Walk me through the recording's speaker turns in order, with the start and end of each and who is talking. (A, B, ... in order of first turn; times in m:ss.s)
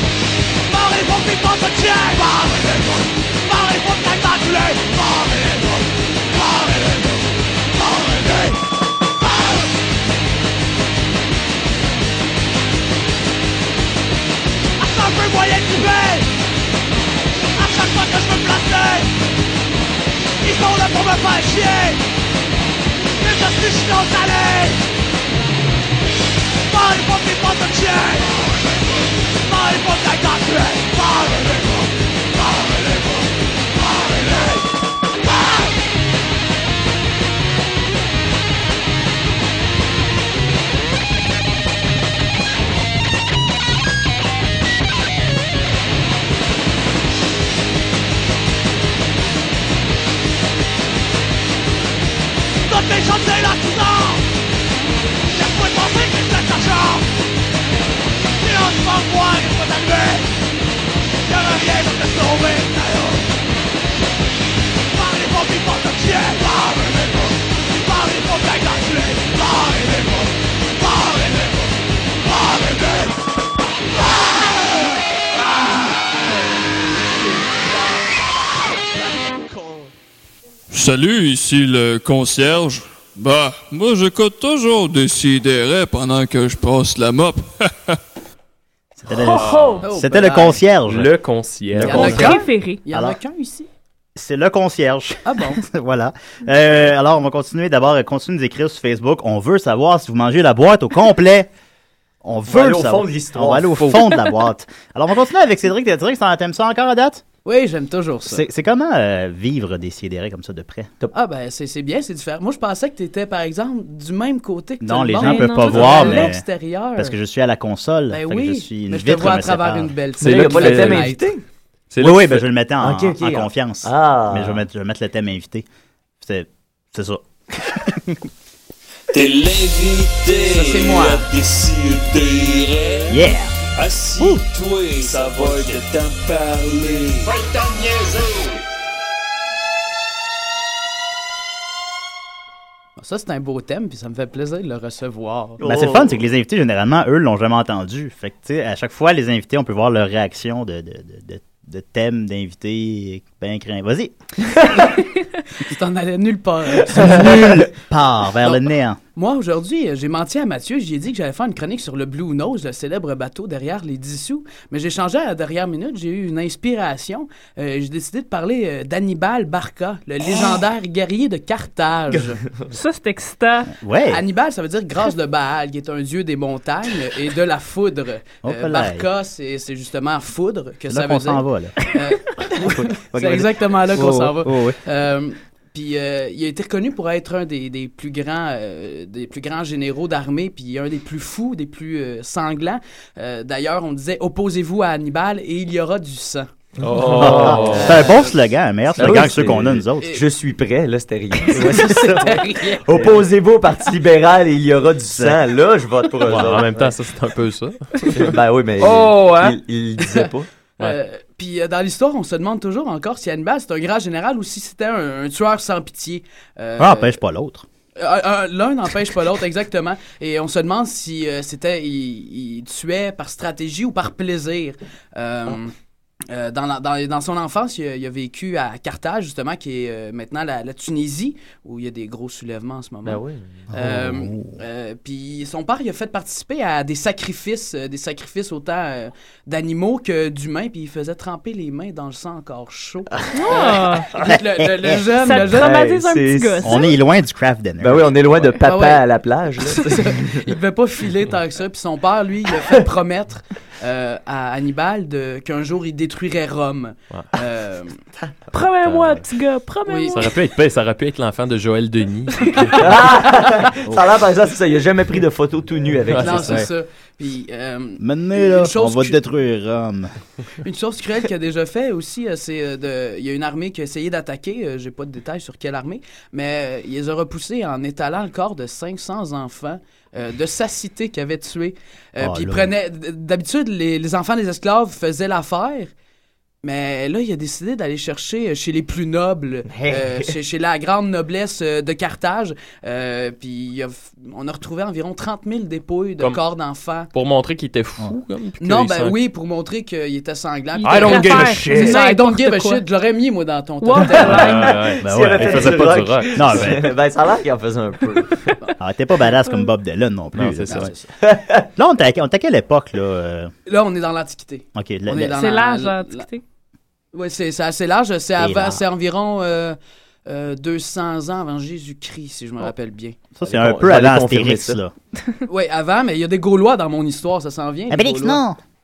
0:00.6-0:08.6 A
0:09.2-0:09.7 A
0:14.8-0:16.3 A
0:17.6-0:19.1 A
0:20.4-0:22.0 A
0:23.2-0:24.8 A
0:26.7-0:28.6 A
0:29.4-0:34.6 A
0:35.3-0:35.7 A
0:52.6-0:54.2 A
0:55.3-0:57.1 A
0:58.4-1:00.3 A
1:01.2-1:03.2 A
1:04.9-1:13.1 A
1:20.7-1:28.0 B
1:29.1-1:31.1 C
1:29.1-1:29.9 D
1:29.4-1:29.8 E
1:29.8-1:30.6 F
1:30.9-1:32.3 E
1:31.7-1:32.4 C
1:31.8-1:33.7 F
1:32.0-1:32.8 D
1:32.9-1:33.2 C
1:34.2-1:41.5 C
1:35.2-1:35.6 F
1:42.2-1:47.2 C
1:42.5-1:44.0 G
1:47.4-1:48.4 F
1:48.3-1:50.9 C
1:51.1-1:57.2 F
1:54.8-1:56.4 C
1:55.2-1:56.3 D
1:57.0-1:59.9 C
1:58.1-2:01.3 F
2:00.2-2:01.1 E
2:00.2-2:01.4 G
2:01.9-2:02.5 E
2:02.0-2:05.6 C
2:02.8-2:04.6 G
2:06.2-2:08.2 C
2:09.1-2:13.2 H
2:10.4-2:11.3 F
2:13.1-2:13.5 C
2:13.8-2:18.5 H
2:23.0-2:25.6 F
2:25.6-2:26.2 G
2:25.6-2:34.1 C
2:35.6-2:37.7 F
2:36.9-2:39.0 C
2:39.2-2:52.4 F
2:52.7-2:53.7 D
2:53.7-2:54.2 C
2:54.1-3:16.5 F
2:58.4-2:59.0 C
3:00.9-3:01.8 C
3:02.6-3:04.8 C
3:16.8-3:18.0 E
3:17.1-3:18.0 G
3:17.2-3:20.1 C
3:17.2-3:18.4 F
3:19.0-3:26.9 G
3:21.5-3:23.2 F
3:21.5-3:22.4 C
3:26.2-3:29.6 E
3:28.1-3:30.5 G
3:30.0-3:37.2 F
3:36.8-3:37.6 C
3:38.0-3:45.7 F
3:46.3-3:53.2 F
3:53.0-3:53.7 G
3:53.7-3:54.6 C
3:53.7-4:05.7 F
4:03.3-4:04.1 D
4:04.2-4:05.0 C
4:05.1-4:06.9 D
4:05.4-4:06.7 G
4:06.6-4:08.1 C
4:07.8-4:10.4 G
4:08.6-4:09.0 F
4:09.7-4:17.9 F
4:18.5-4:20.3 D
4:19.9-4:20.2 F
4:20.1-4:22.8 E
4:22.8-4:26.7 G
4:26.1-4:26.6 E
4:26.2-4:29.2 F
4:28.0-4:30.1 C
4:30.6-4:45.9 F
4:42.2-4:42.7 C
4:46.6-4:57.1 F
4:49.7-4:50.3 G
4:57.1-4:59.2 E
4:58.6-5:04.7 F
5:00.8-5:02.8 D
5:00.8-5:02.0 E
5:03.8-5:04.7 D
5:04.0-5:06.7 E
5:04.4-5:08.5 G
5:05.0-5:06.9 C
5:08.8-5:10.9 C
5:10.3-5:10.9 E
5:10.7-5:11.0 F
5:11.2-5:11.7 G
5:11.7-5:13.5 C
5:13.7-5:16.3 F
5:14.8-5:15.3 C
5:15.3-5:16.4 D
5:17.1-5:23.2 F
5:18.4-5:18.8 C
5:23.3-5:24.9 C
5:23.4-5:24.8 G
5:25.5-5:28.4 F
5:27.9-5:28.6 C